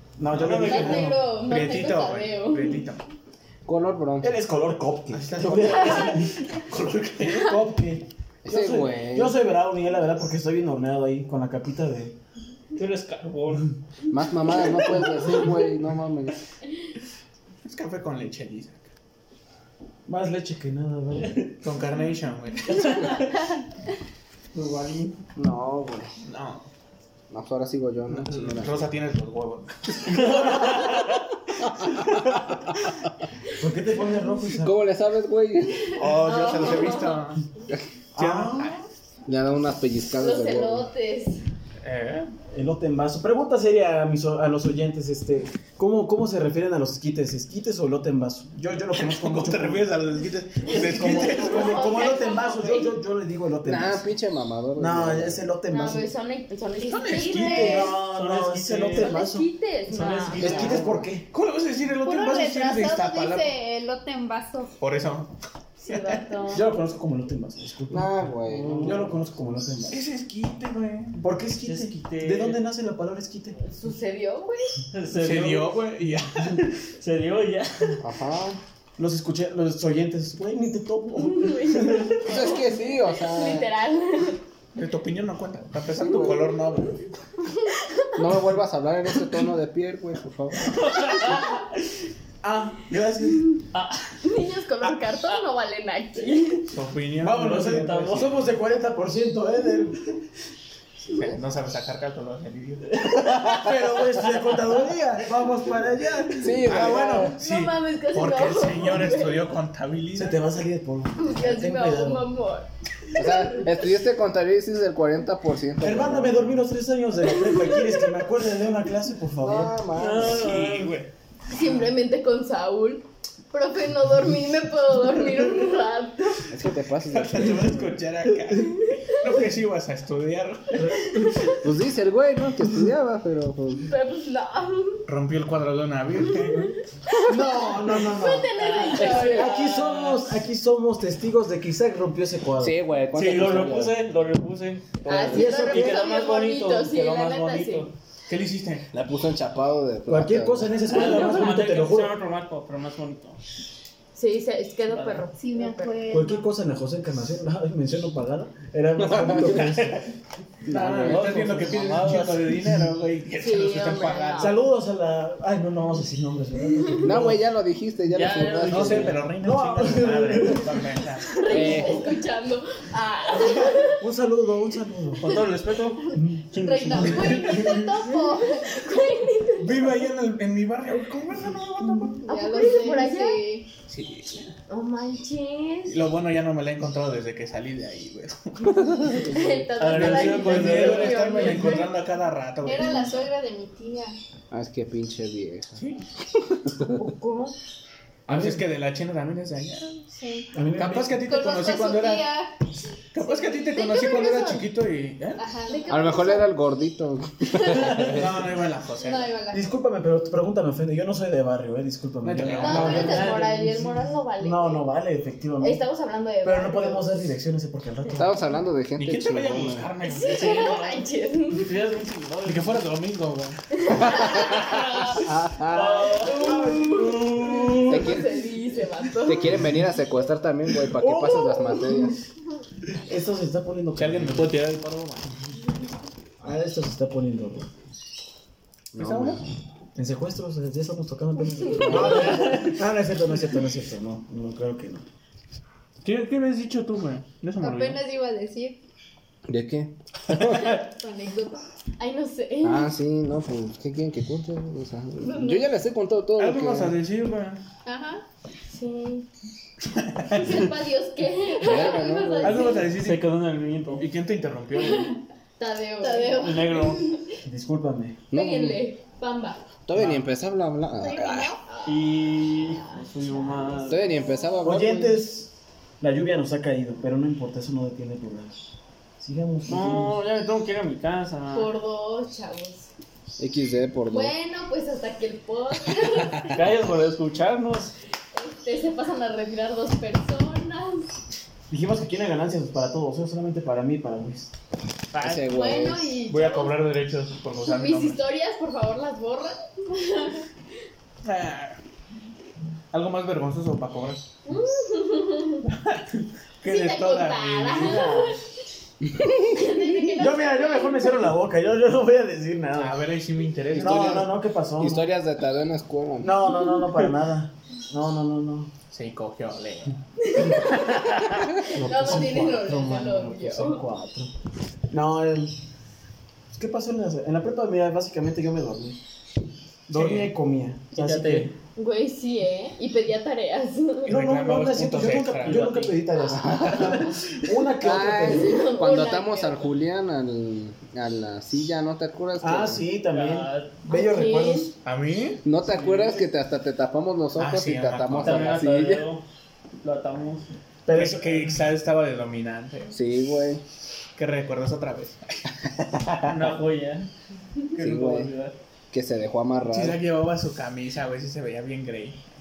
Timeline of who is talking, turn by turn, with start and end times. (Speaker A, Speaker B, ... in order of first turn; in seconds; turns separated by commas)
Speaker A: 0.2-1.2, Speaker B: 0.3-1.1, Speaker C: 0.3-3.1, Speaker D: 0.5-2.9, Speaker E: 3.6-4.4, Speaker A: 4.2-6.3, Speaker C: 5.1-7.6, Speaker A: 7.2-12.2, Speaker E: 8.4-9.4, Speaker B: 12.8-13.7, Speaker E: 14.1-16.4, Speaker C: 17.6-18.9, Speaker A: 20.1-21.5, Speaker C: 21.6-23.2, Speaker B: 22.7-23.3, Speaker B: 24.6-25.1, Speaker C: 24.6-25.1, Speaker E: 25.4-26.1, Speaker C: 26.2-26.7, Speaker E: 27.3-28.8, Speaker C: 28.1-31.1, Speaker B: 30.1-31.1, Speaker C: 31.6-32.6, Speaker A: 33.6-34.8, Speaker E: 34.6-36.0, Speaker C: 35.9-37.4, Speaker D: 36.0-37.2, Speaker A: 38.1-38.8, Speaker C: 38.2-38.8, Speaker E: 39.3-40.9, Speaker D: 40.2-41.4, Speaker C: 41.8-42.3, Speaker A: 42.5-49.9, Speaker C: 48.9-52.1, Speaker A: 50.6-54.1, Speaker D: 51.2-53.0, Speaker E: 53.6-55.4, Speaker A: 54.8-56.1, Speaker D: 55.7-58.0, Speaker C: 56.8-57.9, Speaker A: 57.2-61.3, Speaker B: 57.7-59.1, Speaker D: 59.0-60.8, Speaker C: 60.2-63.5, Speaker E: 60.4-60.8, Speaker F: 62.0-64.8, Speaker C: 64.8-65.3, Speaker D: 65.8-66.7, Speaker C: 65.9-66.3, Speaker A: 66.5-70.0, Speaker E: 67.9-69.0, Speaker B: 68.5-69.1, Speaker C: 69.9-71.3, Speaker A: 71.2-73.6, Speaker B: 71.6-72.6, Speaker D: 73.6-74.8, Speaker B: 74.9-75.7, Speaker C: 75.2-76.7, Speaker B: 77.0-78.0, Speaker E: 78.0-78.6, Speaker A: 79.0-82.3, Speaker D: 81.2-84.4, Speaker E: 82.2-83.7, Speaker C: 84.8-87.1, Speaker E: 86.0-86.5, Speaker D: 87.6-88.1, Speaker E: 88.2-90.8, Speaker B: 90.6-91.5, Speaker A: 92.4-93.5, Speaker B: 93.7-94.2, Speaker D: 94.2-96.7, Speaker C: 96.7-97.9, Speaker A: 97.2-100.2, Speaker B: 97.4-98.4, Speaker C: 101.1-103.0, Speaker B: 102.9-103.5, Speaker E: 103.3-103.6, Speaker A: 103.3-107.0, Speaker E: 106.4-107.3, Speaker C: 106.6-110.4, Speaker D: 107.2-109.5, Speaker A: 110.2-112.3, Speaker D: 111.2-112.7, Speaker E: 113.2-116.7, Speaker A: 115.8-119.8, Speaker D: 117.4-117.7, Speaker E: 119.4-120.5, Speaker B: 120.0-121.0, Speaker C: 120.3-121.1, Speaker D: 121.5-126.5, Speaker E: 126.5-127.7, Speaker C: 127.0-131.4, Speaker D: 129.1-129.4, Speaker A: 130.7-131.3, Speaker E: 131.6-133.9, Speaker D: 133.9-135.0, Speaker C: 135.1-136.7, Speaker D: 136.4-139.5, Speaker A: 137.2-138.5, Speaker B: 138.6-140.3, Speaker E: 139.0-139.5, Speaker A: 139.1-142.8, Speaker E: 142.6-144.0, Speaker B: 143.1-147.9, Speaker D: 145.1-147.9, Speaker A: 145.2-146.1, Speaker C: 148.3-148.9, Speaker E: 148.9-150.8, Speaker A: 150.1-152.2, Speaker B: 150.9-153.4, Speaker D: 154.1-156.0, Speaker B: 154.9-155.3, Speaker F: 155.3-156.5, Speaker A: 156.1-160.0, Speaker E: 159.0-159.7, Speaker C: 159.2-160.1, Speaker A: 160.6-161.8, Speaker C: 160.7-164.6, Speaker E: 160.8-161.2, Speaker B: 161.0-162.5, Speaker D: 163.4-164.6, Speaker A: 164.4-167.4, Speaker E: 167.0-169.2, Speaker B: 168.1-169.2, Speaker C: 168.7-171.4, Speaker A: 169.4-170.8, Speaker D: 171.3-174.0, Speaker B: 171.5-172.1, Speaker E: 171.5-172.0, Speaker A: 173.8-175.3, Speaker B: 175.2-177.7, Speaker A: 176.1-176.4, Speaker F: 176.5-179.2, Speaker C: 177.0-177.9, Speaker D: 178.4-180.0, Speaker C: 179.6-182.2, Speaker F: 182.0-183.7, Speaker D: 182.2-183.5, Speaker C: 183.9-184.6, Speaker D: 184.7-186.1, Speaker C: 185.9-189.2, Speaker D: 189.2-192.0, Speaker E: 189.3-189.7, Speaker B: 189.8-191.6, Speaker C: 189.9-193.1, Speaker F: 192.6-194.2, Speaker E: 194.5-195.8, Speaker C: 195.8-196.0, Speaker E: 196.7-197.0, Speaker F: 197.0-197.5, Speaker A: 198.3-198.6, Speaker C: 198.3-200.1, Speaker F: 200.1-200.5, Speaker A: 200.5-201.2, Speaker C: 200.7-202.4, Speaker F: 201.2-202.5, Speaker C: 203.1-205.4, Speaker F: 203.2-204.7, Speaker F: 205.4-206.6, Speaker E: 205.9-208.5, Speaker F: 207.6-208.0, Speaker C: 208.0-209.4, Speaker F: 209.0-209.8, Speaker A: 209.5-213.8, Speaker C: 212.2-213.4, Speaker B: 212.4-213.9, Speaker D: 212.6-214.9, Speaker A: 214.4-215.8, Speaker D: 215.6-217.1, Speaker A: 216.4-218.4, Speaker E: 218.2-219.9, Speaker C: 219.0-220.8, Speaker D: 220.0-221.7, Speaker B: 220.2-221.0, Speaker B: 221.6-222.8, Speaker C: 222.4-223.6, Speaker D: 223.8-225.3, Speaker E: 224.0-226.1, Speaker B: 225.6-226.6, Speaker A: 225.6-228.2, Speaker D: 226.1-229.6, Speaker E: 227.9-228.3, Speaker E: 229.2-232.2, Speaker A: 230.9-231.9, Speaker A: 233.1-234.6, Speaker C: 233.9-235.3, Speaker A: 236.4-237.7, Speaker E: 238.9-239.4, Speaker C: 239.0-239.4, Speaker A: 240.0-245.1, Speaker E: 241.8-242.3, Speaker C: 246.0-248.0, Speaker F: 247.6-248.8, Speaker E: 249.5-250.8, Speaker F: 250.7-251.6, Speaker D: 252.0-252.9, Speaker E: 252.6-257.0, Speaker D: 255.3-255.6, Speaker C: 256.4-257.6, Speaker F: 257.9-258.2, Speaker D: 258.7-259.3, Speaker C: 259.9-260.7, Speaker D: 260.3-262.9, Speaker E: 261.6-262.8, Speaker C: 262.4-263.3, Speaker B: 262.9-264.1, Speaker C: 264.0-265.2, Speaker D: 264.8-267.3, Speaker F: 266.0-266.8, Speaker B: 266.4-267.1, Speaker A: 267.4-268.2, Speaker E: 268.3-268.8, Speaker D: 268.3-269.6, Speaker E: 269.9-271.6, Speaker F: 271.0-271.6, Speaker D: 271.7-272.1, Speaker B: 271.9-274.1, Speaker D: 272.8-274.0, Speaker E: 273.9-275.2, Speaker A: 274.6-278.6, Speaker A: 279.2-280.2, Speaker B: 279.7-281.7, Speaker D: 281.5-282.9, Speaker E: 283.4-284.3, Speaker D: 284.1-286.5, Speaker B: 286.5-287.9, Speaker D: 288.3-291.1, Speaker A: 291.7-294.5, Speaker B: 295.1-295.4, Speaker E: 295.1-296.2, Speaker D: 295.4-296.8, Speaker C: 296.3-298.2, Speaker D: 297.6-300.5, Speaker C: 301.2-301.8, Speaker C: 302.9-304.3, Speaker D: 304.5-305.7, Speaker C: 305.6-308.3, Speaker D: 306.6-308.4, Speaker A: 307.7-308.3, Speaker D: 309.2-311.2, Speaker A: 310.2-313.0, Speaker C: 312.8-314.4, Speaker E: 313.7-316.5, Speaker A: 313.8-315.1, Speaker A: 316.2-318.7, Speaker C: 318.9-320.0, Speaker D: 320.2-323.8, Speaker C: 320.5-321.4, Speaker A: 321.7-324.3, Speaker A: 324.9-325.6, Speaker A: 326.5-329.0, Speaker A: 329.9-331.5, Speaker C: 329.9-330.3, Speaker B: 330.9-331.5, Speaker D: 331.8-334.2, Speaker A: 334.1-338.5, Speaker C: 334.1-337.0, Speaker E: 336.3-337.0, Speaker E: 337.8-342.9, Speaker D: 338.3-339.6, Speaker A: 342.4-344.7, Speaker B: 343.1-343.8, Speaker D: 343.9-344.7, Speaker C: 344.8-345.4, Speaker E: 345.4-349.1, Speaker B: 345.7-346.2, Speaker C: 347.4-348.6, Speaker B: 348.2-349.2, Speaker B: 349.8-350.5, Speaker A: 350.9-351.6, Speaker C: 350.9-352.9, Speaker E: 352.9-353.6, Speaker C: 354.2-356.6, Speaker B: 356.3-357.1, Speaker B: 357.7-358.6, Speaker E: 357.8-358.3, Speaker E: 358.9-360.0, Speaker C: 359.7-362.2